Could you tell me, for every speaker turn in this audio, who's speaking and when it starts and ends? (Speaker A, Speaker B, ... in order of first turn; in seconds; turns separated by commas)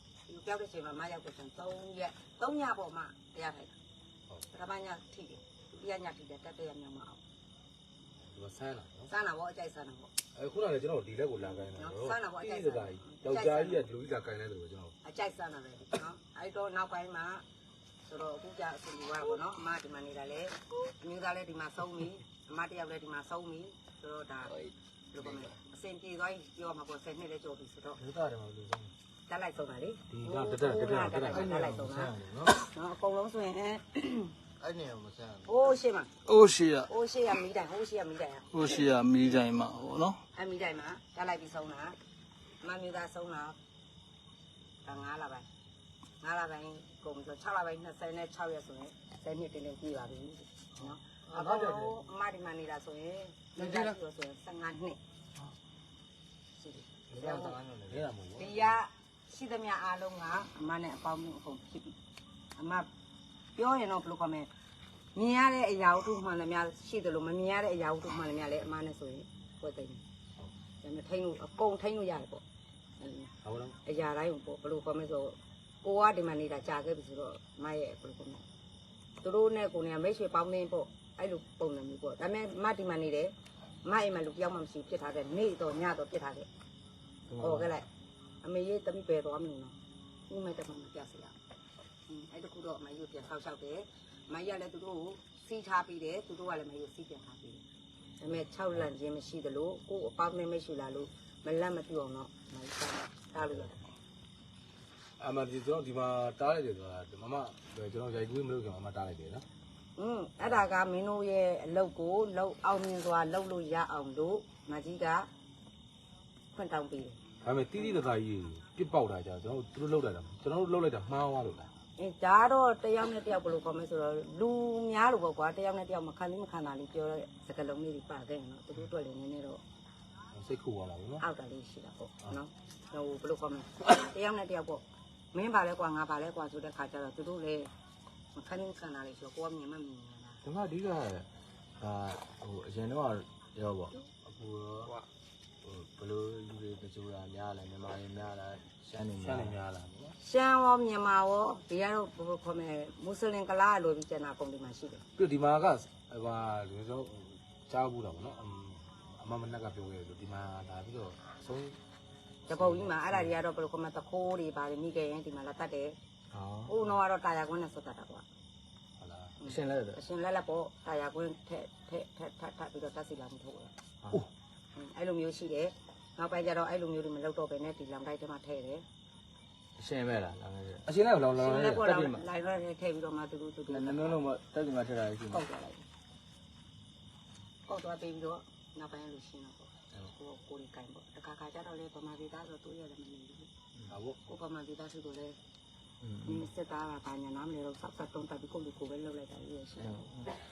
Speaker A: 0.3-3.8, Speaker A: 4.5-7.2, Speaker B: 8.3-9.1, Speaker A: 9.1-10.1, Speaker B: 10.3-14.9, Speaker A: 11.4-13.9, Speaker A: 15.0-17.4, Speaker A: 18.1-24.6, Speaker A: 25.1-28.0, Speaker C: 28.0-28.9, Speaker A: 29.3-34.3, Speaker B: 30.1-31.6, Speaker C: 31.3-32.6, Speaker C: 34.6-35.5, Speaker A: 35.4-36.1, Speaker D: 36.2-36.8, Speaker A: 36.7-38.9, Speaker D: 38.5-40.2, Speaker A: 40.3-42.0, Speaker A: 42.6-43.6, Speaker A: 44.8-45.5, Speaker A: 46.2-55.0, Speaker B: 51.3-51.9, Speaker A: 56.6-57.6, Speaker C: 57.1-58.1, Speaker B: 57.9-58.6, Speaker A: 58.3-61.9, Speaker A: 62.5-62.9, Speaker A: 63.5-64.5, Speaker A: 65.1-70.0, Speaker A: 70.8-72.4, Speaker A: 73.0-73.3, Speaker B: 73.4-73.8, Speaker A: 73.8-78.4, Speaker A: 79.2-86.5, Speaker C: 87.3-87.8, Speaker A: 87.4-87.9, Speaker A: 88.4-89.8, Speaker A: 90.3-91.3, Speaker A: 92.1-97.6, Speaker A: 98.2-103.7, Speaker B: 105.2-109.4, Speaker A: 110.0-115.3, Speaker A: 116.5-117.2, Speaker B: 117.4-121.7, Speaker A: 122.0-129.6, Speaker B: 130.3-131.2, Speaker A: 131.2-137.7, Speaker A: 138.3-140.4, Speaker C: 140.4-143.9, Speaker B: 144.2-145.0, Speaker C: 145.7-149.6, Speaker B: 149.2-150.1, Speaker A: 150.2-155.0, Speaker B: 155.2-161.8, Speaker A: 162.5-166.0, Speaker C: 166.3-166.8, Speaker A: 166.7-168.2, Speaker B: 169.0-169.4, Speaker A: 169.4-173.7, Speaker C: 169.4-170.0, Speaker A: 174.8-178.8, Speaker C: 179.8-180.9, Speaker B: 180.8-181.8, Speaker A: 181.3-184.2, Speaker C: 181.8-182.2, Speaker C: 183.7-185.4, Speaker A: 185.3-185.8, Speaker A: 187.7-193.5, Speaker B: 193.9-194.2, Speaker A: 194.2-195.4, Speaker C: 196.0-196.4, Speaker A: 196.2-200.1, Speaker C: 199.8-200.3